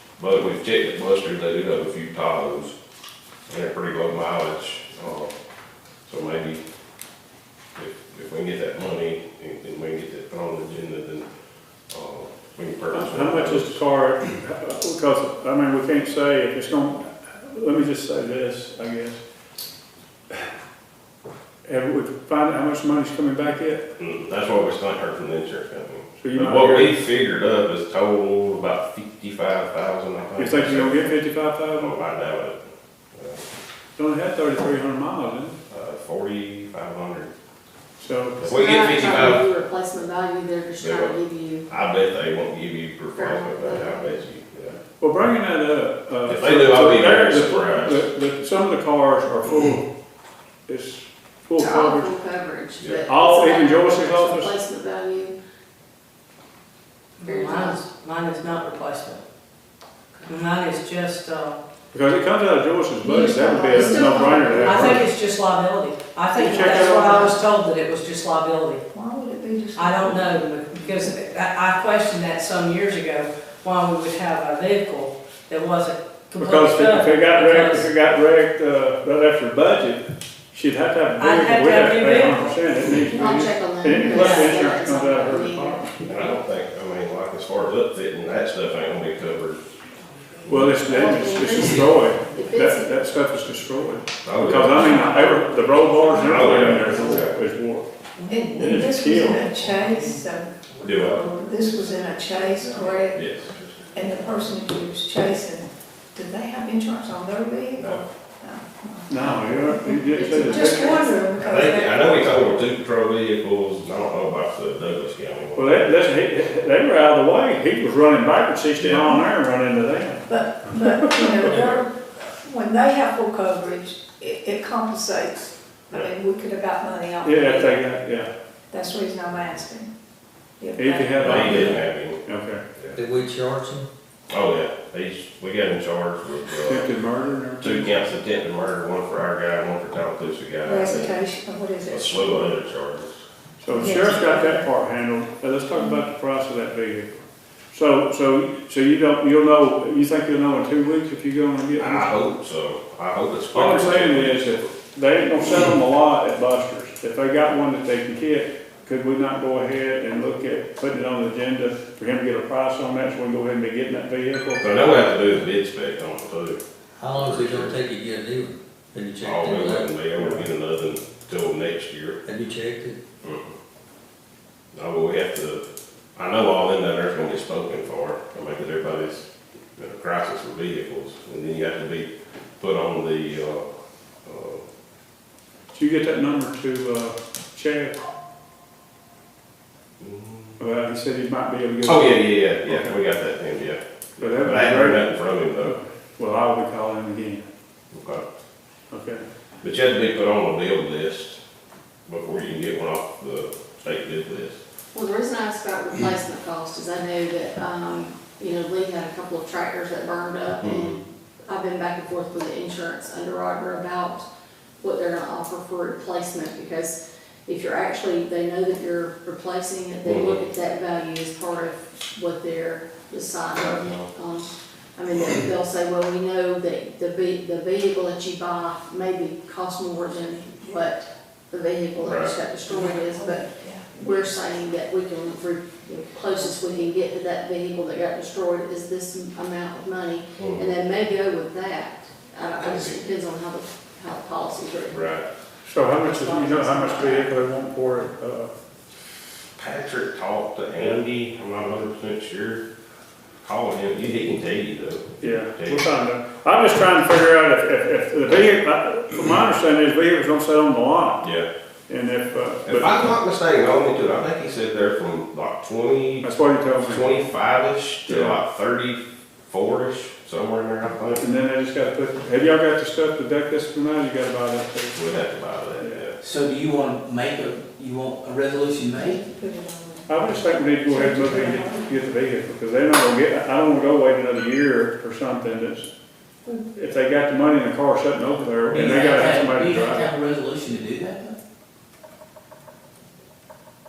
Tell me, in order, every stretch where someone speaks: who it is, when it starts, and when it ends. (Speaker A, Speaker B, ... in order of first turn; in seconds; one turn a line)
Speaker A: 0.2-2.7
Speaker A: 3.5-5.3
Speaker A: 6.0-6.6
Speaker A: 7.8-11.2
Speaker A: 11.9-13.8
Speaker B: 12.9-19.2
Speaker B: 21.6-23.8
Speaker A: 24.0-31.2
Speaker B: 26.2-27.0
Speaker B: 30.4-31.9
Speaker A: 31.7-32.6
Speaker A: 33.1-33.4
Speaker B: 34.0-35.6
Speaker A: 35.7-37.3
Speaker B: 38.0-38.5
Speaker A: 38.4-39.4
Speaker C: 38.5-41.7
Speaker A: 40.8-41.1
Speaker A: 41.7-44.8
Speaker C: 43.1-44.1
Speaker B: 45.0-49.9
Speaker A: 46.2-48.0
Speaker B: 50.7-52.1
Speaker C: 51.5-55.4
Speaker A: 52.8-53.1
Speaker B: 53.1-54.5
Speaker D: 57.2-59.2
Speaker C: 57.2-57.8
Speaker D: 60.2-61.6
Speaker B: 61.9-65.1
Speaker E: 63.0-64.4
Speaker D: 63.8-68.8
Speaker C: 64.0-64.9
Speaker B: 66.4-67.4
Speaker E: 66.4-66.7
Speaker E: 68.9-71.2
Speaker D: 69.7-77.9
Speaker B: 76.4-86.1
Speaker D: 81.2-82.6
Speaker C: 83.0-85.8
Speaker D: 84.0-84.6
Speaker A: 86.0-89.6
Speaker A: 90.4-90.8
Speaker B: 90.5-97.9
Speaker C: 90.8-93.1
Speaker A: 94.2-95.0
Speaker C: 94.8-96.8
Speaker A: 96.2-97.3
Speaker E: 98.3-103.2
Speaker B: 98.5-99.5
Speaker F: 99.4-101.7
Speaker A: 100.8-101.2
Speaker A: 103.1-103.5
Speaker E: 103.9-112.6
Speaker A: 107.8-108.0
Speaker B: 109.1-111.0
Speaker A: 111.4-116.0
Speaker B: 115.5-121.6
Speaker A: 118.8-119.0
Speaker E: 120.3-127.9
Speaker B: 127.2-128.3
Speaker E: 128.7-129.9
Speaker E: 130.6-131.6
Speaker B: 130.7-132.6
Speaker A: 131.2-132.2
Speaker G: 131.3-131.8
Speaker G: 132.9-133.9
Speaker A: 134.3-136.8
Speaker B: 136.6-138.1
Speaker A: 137.6-141.2
Speaker E: 140.6-142.5
Speaker A: 141.9-143.2
Speaker B: 143.6-147.1
Speaker E: 143.7-144.7
Speaker B: 147.7-152.2
Speaker A: 151.8-154.7
Speaker B: 153.5-164.8
Speaker A: 164.6-167.8
Speaker G: 167.0-170.0
Speaker A: 169.2-172.2
Speaker G: 172.2-173.0
Speaker A: 173.2-173.5
Speaker A: 174.7-175.6
Speaker A: 176.2-183.7
Speaker A: 184.2-184.6
Speaker B: 185.7-187.9
Speaker A: 190.0-190.6
Speaker B: 190.6-193.0
Speaker A: 191.8-195.8
Speaker B: 194.2-197.4
Speaker A: 197.9-198.2
Speaker B: 198.9-199.2
Speaker A: 199.6-201.4
Speaker A: 202.1-204.6
Speaker C: 204.9-214.2
Speaker A: 210.6-211.0
Speaker C: 214.8-245.2
Speaker A: 220.0-220.4
Speaker A: 223.6-224.1
Speaker A: 232.0-232.3
Speaker E: 232.7-234.3
Speaker E: 236.3-236.9
Speaker A: 240.4-240.7
Speaker A: 242.6-243.1
Speaker A: 244.9-245.2
Speaker B: 245.6-248.5
Speaker C: 246.0-247.3
Speaker A: 249.6-252.6
Speaker A: 253.4-255.9
Speaker B: 255.2-261.3
Speaker B: 261.9-262.9
Speaker A: 262.6-271.2
Speaker B: 266.2-267.1
Speaker B: 268.1-268.4
Speaker B: 271.2-275.0
Speaker A: 274.9-276.1
Speaker B: 275.7-276.0
Speaker F: 276.2-279.2
Speaker E: 279.1-282.0
Speaker B: 280.1-285.9
Speaker B: 286.7-290.1
Speaker F: 288.7-291.4